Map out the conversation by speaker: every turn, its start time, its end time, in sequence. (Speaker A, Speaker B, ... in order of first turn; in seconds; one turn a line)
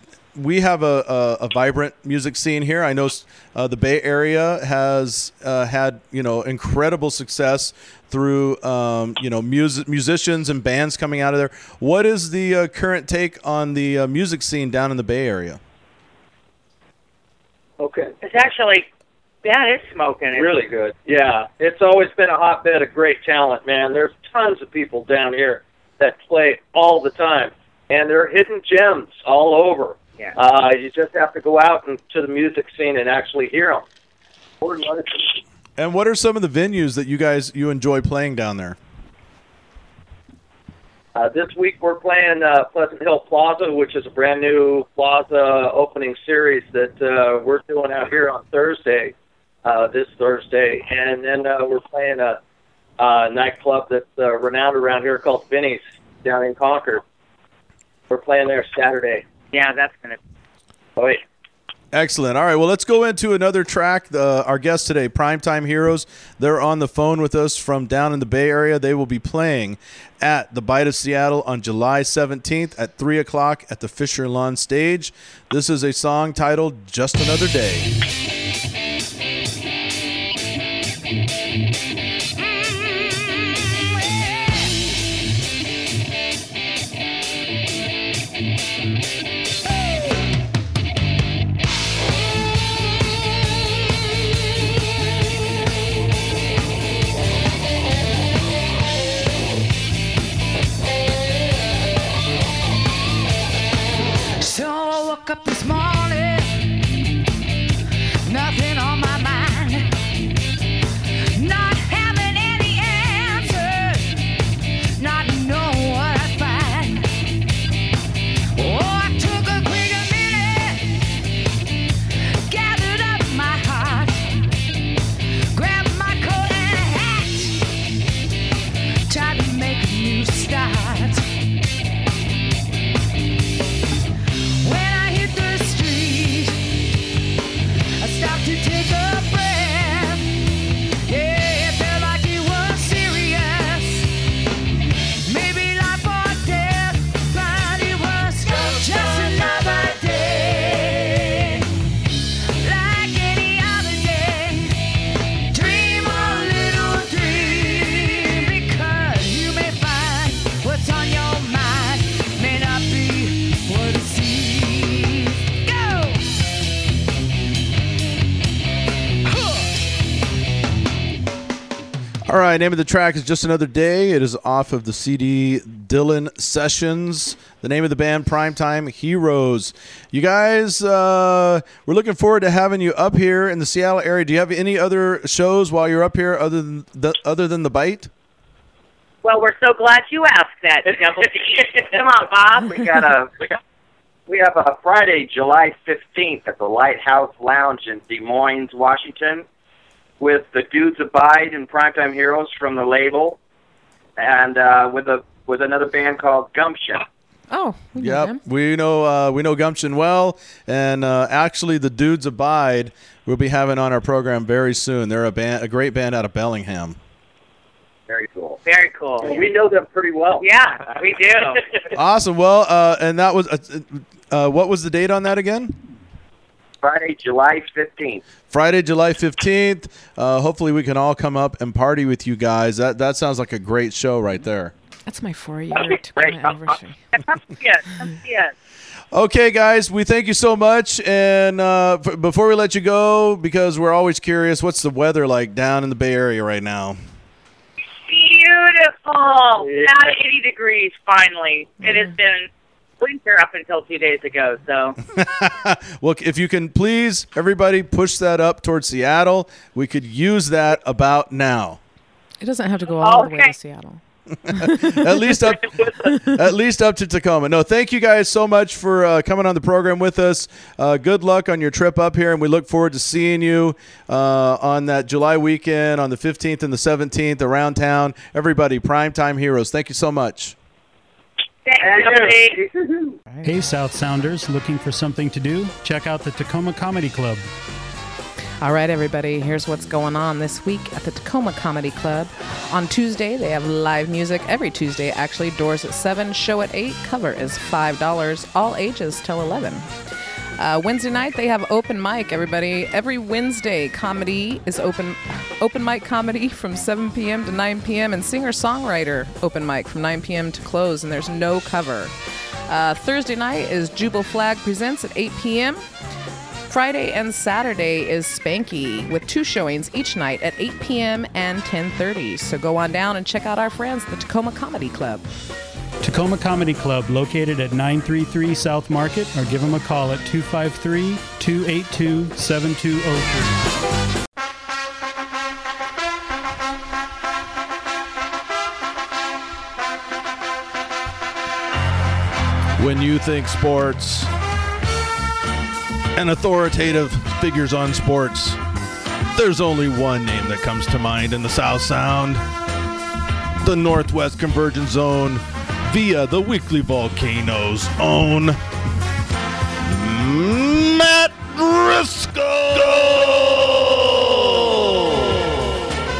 Speaker A: 0.3-15.6
Speaker B: 17.8-18.1
Speaker C: 18.2-18.9
Speaker C: 19.4-20.5
Speaker B: 20.3-33.8
Speaker B: 34.6-35.3
Speaker A: 35.8-38.8
Speaker B: 41.2-49.1
Speaker B: 49.6-52.4
Speaker B: 53.0-57.0
Speaker B: 58.1-59.2
Speaker C: 59.5-60.2
Speaker A: 61.9-77.9
Speaker D: 82.5-83.5
Speaker D: 84.1-84.7
Speaker D: 104.4-106.8
Speaker D: 108.3-109.9
Speaker D: 111.3-114.3
Speaker D: 115.0-117.2
Speaker D: 118.5-121.2
Speaker D: 122.5-124.3
Speaker D: 125.5-127.6
Speaker D: 129.1-131.2
Speaker D: 134.6-136.8
Speaker D: 138.0-140.4
Speaker D: 141.0-144.1
Speaker D: 145.2-151.7
Speaker D: 152.6-154.8
Speaker D: 155.5-166.3
Speaker D: 169.2-169.7
Speaker A: 172.3-188.1
Speaker C: 189.2-193.0
Speaker B: 192.6-193.4
Speaker B: 194.3-199.4
Speaker B: 200.2-203.4
Speaker B: 204.2-207.0
Speaker E: 207.5-208.4
Speaker A: 208.0-217.0
Speaker B: 218.1-218.6
Speaker C: 218.7-219.4
Speaker B: 219.2-220.4
Speaker C: 220.4-221.9
Speaker A: 221.9-225.8
Speaker B: 226.8-228.2
Speaker A: 228.5-234.7
Speaker E: 235.1-237.0
Speaker C: 237.1-238.5
Speaker A: 239.1-247.0
Speaker C: 248.1-252.5
Speaker B: 249.6-250.0
Speaker C: 253.0-255.0
Speaker A: 255.1-261.8
Speaker E: 262.4-265.3
Speaker C: 263.0-263.5
Speaker A: 264.5-280.6
Speaker C: 281.6-282.6
Speaker B: 281.8-283.0
Speaker F: 283.4-287.5
Speaker E: 288.6-299.9
Speaker E: 300.6-312.1
Speaker E: 312.7-315.8
Speaker E: 316.7-325.3
Speaker F: 326.0-333.6
Speaker A: 342.8-344.3
Speaker A: 346.1-348.6
Speaker A: 349.3-352.4
Speaker A: 353.6-358.6
Speaker A: 359.8-365.7